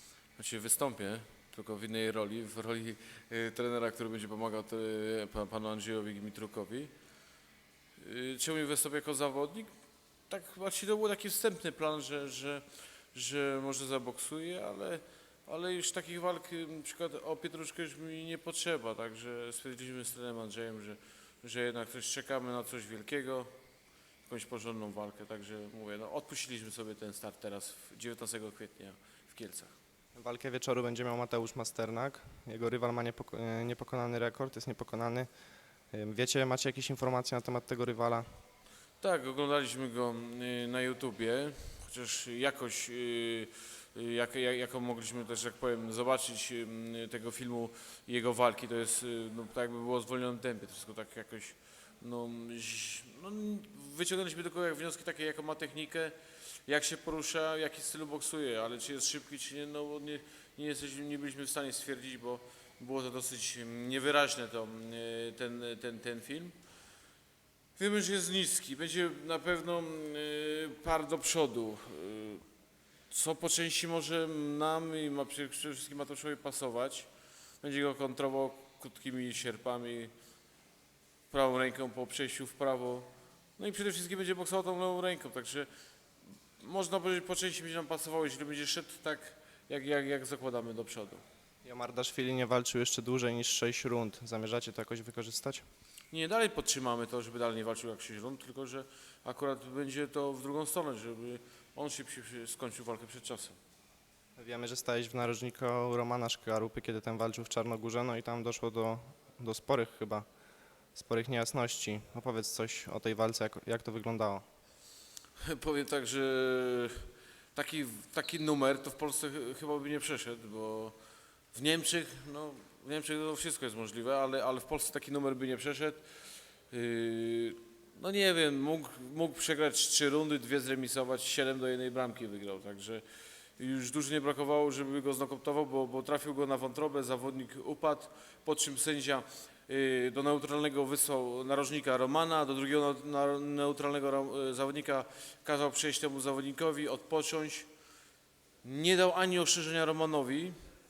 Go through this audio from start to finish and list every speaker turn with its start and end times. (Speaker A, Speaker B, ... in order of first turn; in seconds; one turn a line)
Speaker A: 0.4-6.9
Speaker A: 8.0-9.7
Speaker A: 10.3-23.5
Speaker A: 24.3-29.7
Speaker B: 30.1-35.3
Speaker B: 35.9-38.3
Speaker A: 39.0-56.1
Speaker A: 56.7-66.5
Speaker A: 67.8-72.4
Speaker A: 73.1-77.1
Speaker A: 77.6-80.1
Speaker A: 81.3-85.7
Speaker A: 86.6-91.2
Speaker B: 91.6-95.7
Speaker A: 96.1-103.6
Speaker B: 104.4-110.3
Speaker B: 111.0-114.5
Speaker A: 115.4-120.9
Speaker A: 121.5-126.0
Speaker A: 126.7-133.0
Speaker A: 133.6-147.7
Speaker A: 148.6-150.6